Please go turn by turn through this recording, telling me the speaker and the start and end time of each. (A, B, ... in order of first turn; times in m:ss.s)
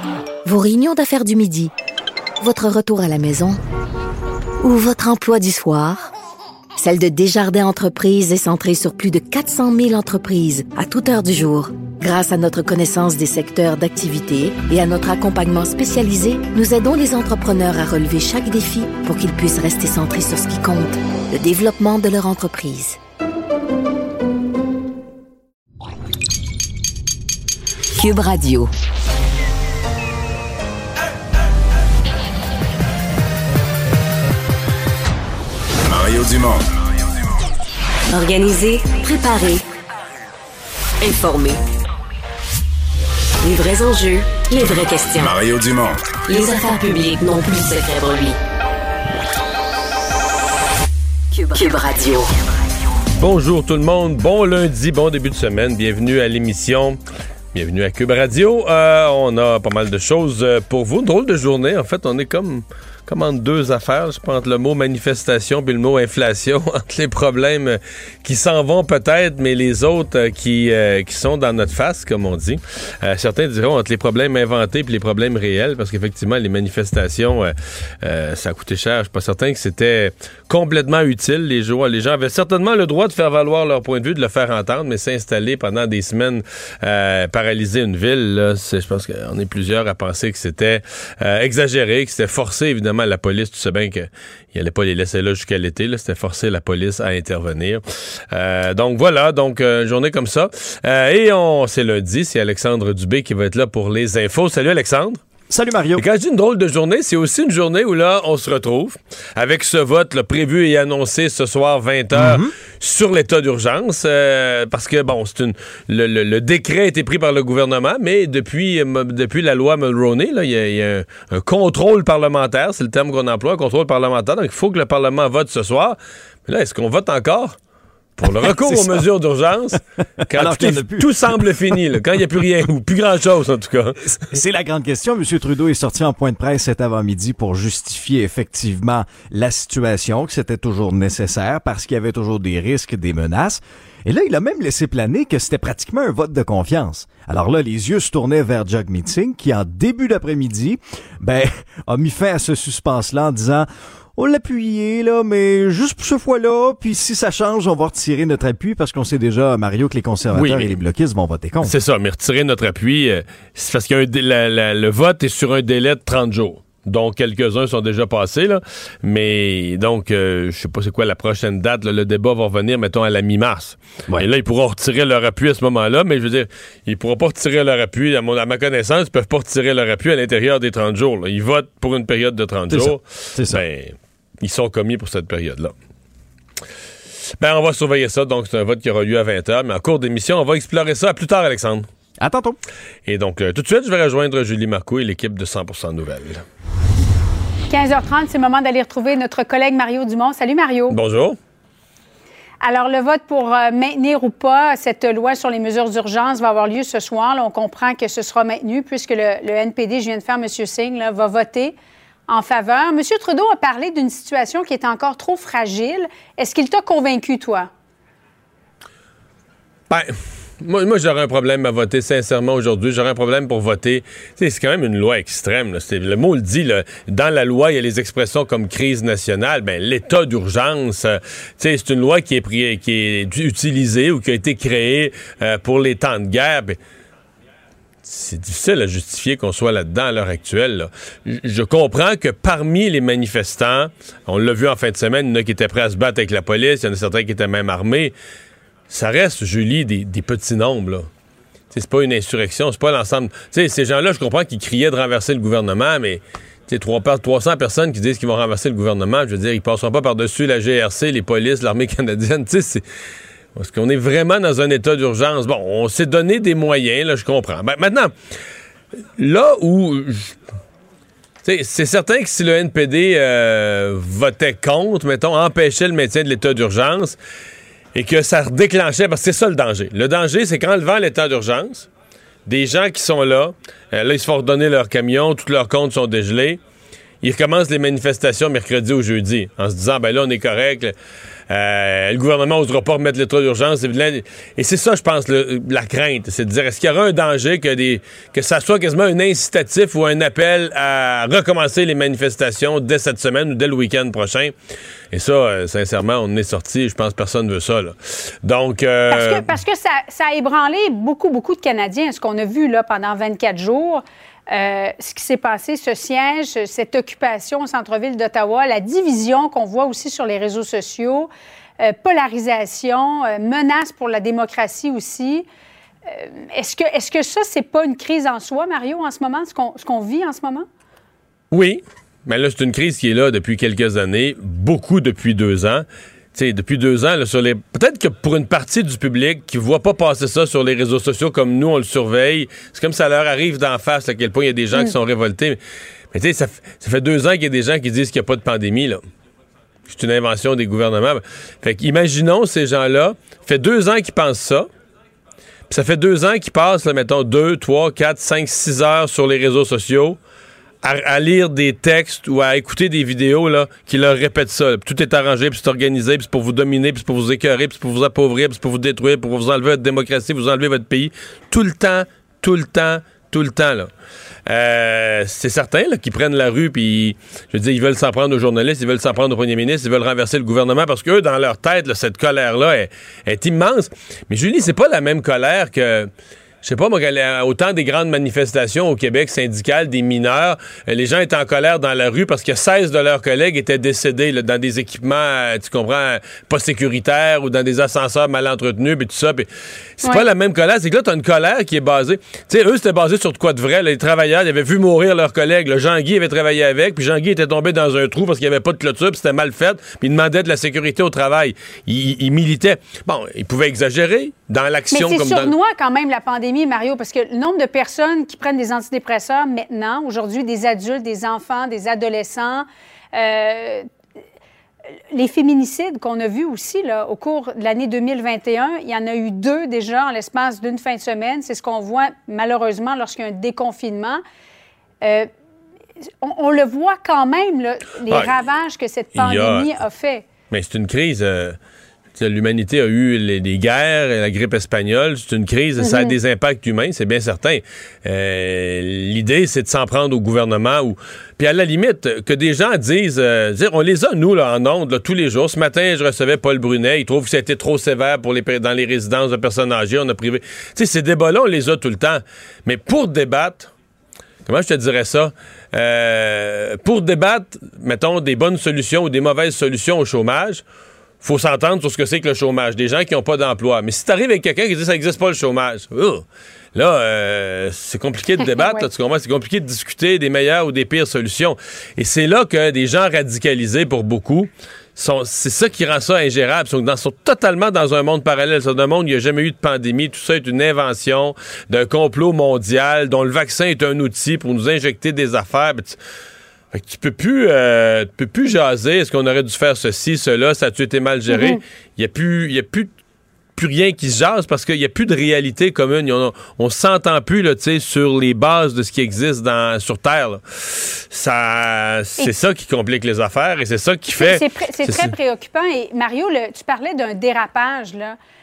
0:00.4-0:01.7 A
0:02.4-0:03.6 A
0:04.6-0:06.1 A
0:06.8-0:23.0 A
0:28.0-0:28.7 B
0:35.8-0:36.7 C
0:38.1-0:39.6 B
0:41.0-0:41.6 B
0:43.4-0:45.3 B
0:44.7-0:46.0 C
0:46.3-0:48.4 B
0:51.3-0:52.3 B
0:53.2-0:57.0 D
0:57.5-1:45.2 D
1:45.5-1:46.0 E
1:46.0-2:07.6 D
1:52.1-1:52.5 E
2:08.2-2:14.2 D
2:08.2-2:09.0 E
2:10.3-2:11.7 E
2:14.2-2:41.7 E
2:40.3-2:40.7 D
2:41.6-3:05.7 D
3:02.7-3:03.6 E
3:07.4-3:11.9 D
3:12.2-3:12.6 E
3:13.0-3:16.4 D
3:17.7-3:21.0 F
3:20.9-3:21.4 D
3:22.6-3:31.7 F
3:32.3-3:37.7 F
3:39.9-3:56.8 D
3:58.0-4:08.1 D
4:08.9-4:11.1 D
4:11.7-4:22.8 D
4:23.5-4:28.1 D
4:29.2-4:30.4 D
4:31.4-4:37.2 D
4:37.9-4:41.9 D
4:42.4-4:46.6 D
4:47.2-4:50.9 D
4:51.5-5:04.5 D
5:05.1-5:09.5 D
5:09.1-5:25.4 F
5:26.1-5:30.6 F
5:31.5-5:45.6 D
5:46.1-5:49.0 D
5:49.9-5:54.7 D
5:55.7-6:00.2 D
6:00.8-6:13.9 D
6:14.5-6:26.1 D
6:26.6-6:39.5 D
6:40.0-6:55.5 D
6:54.9-7:03.9 F
7:05.1-7:14.2 F
7:15.0-7:15.3 F
7:16.2-7:20.2 F
7:19.1-7:19.7 D
7:20.5-7:21.6 D
7:22.2-7:43.7 D
7:25.8-7:26.2 F
7:44.4-7:50.6 D
7:51.2-8:16.0 D
7:58.6-7:58.8 F
8:16.7-8:22.9 D
8:21.3-8:21.6 F
8:23.6-8:35.1 D
8:34.2-8:38.2 F